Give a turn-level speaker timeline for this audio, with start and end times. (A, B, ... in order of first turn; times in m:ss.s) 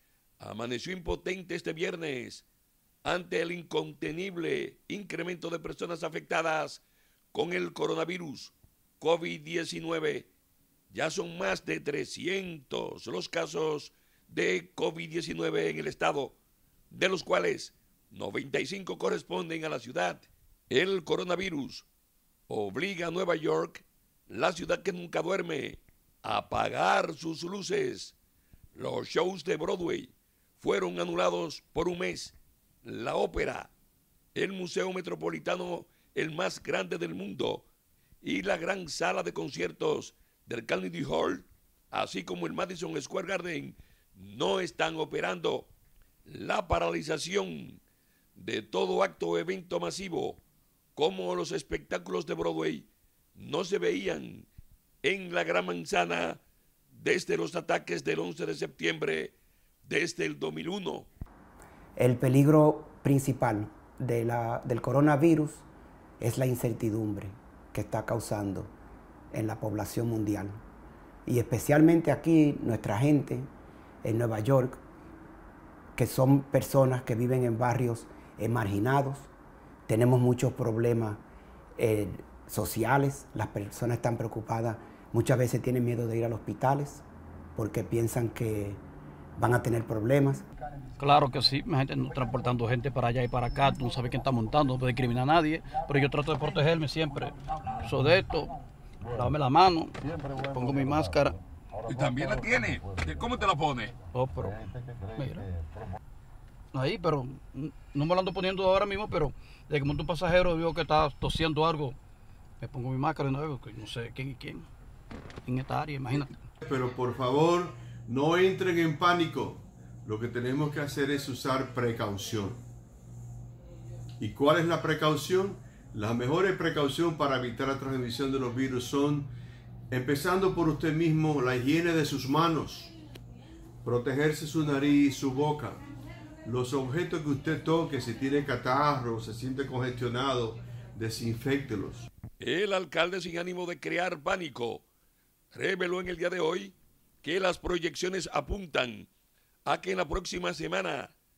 0:00.4-0:02.5 A
0:03.0-0:10.3 A
0:10.9-0:16.4 A
0:16.9-0:21.9 A
0:22.5-0:28.2 A
0:28.8-0:33.7 A
0:34.4-0:37.7 A
0:38.2-0:45.7 A
0:46.3-0:47.8 A
0:48.4-0:50.4 A
0:51.0-0:54.5 A
0:55.0-0:56.4 A
0:56.9-1:01.1 A
1:02.0-1:05.7 B
1:06.2-1:08.7 B
1:09.3-1:10.6 B
1:11.3-1:13.5 B
1:14.0-1:14.8 B
1:16.0-1:19.3 B
1:19.9-1:21.2 B
1:21.8-1:28.8 B
1:29.4-1:30.4 B
1:31.0-1:38.6 C
1:39.1-1:41.4 C
1:41.9-1:44.0 A
1:44.1-1:44.6 C
1:45.2-1:45.5 C
1:46.7-1:52.0 C
1:52.6-1:54.7 C
1:55.4-1:56.4 C
1:56.6-2:02.6 D
2:04.2-2:09.3 D
2:09.9-2:12.9 D
2:13.8-2:15.8 D
2:16.4-2:22.1 D
2:22.4-2:24.9 A
2:25.5-2:29.1 A
2:29.7-2:31.1 A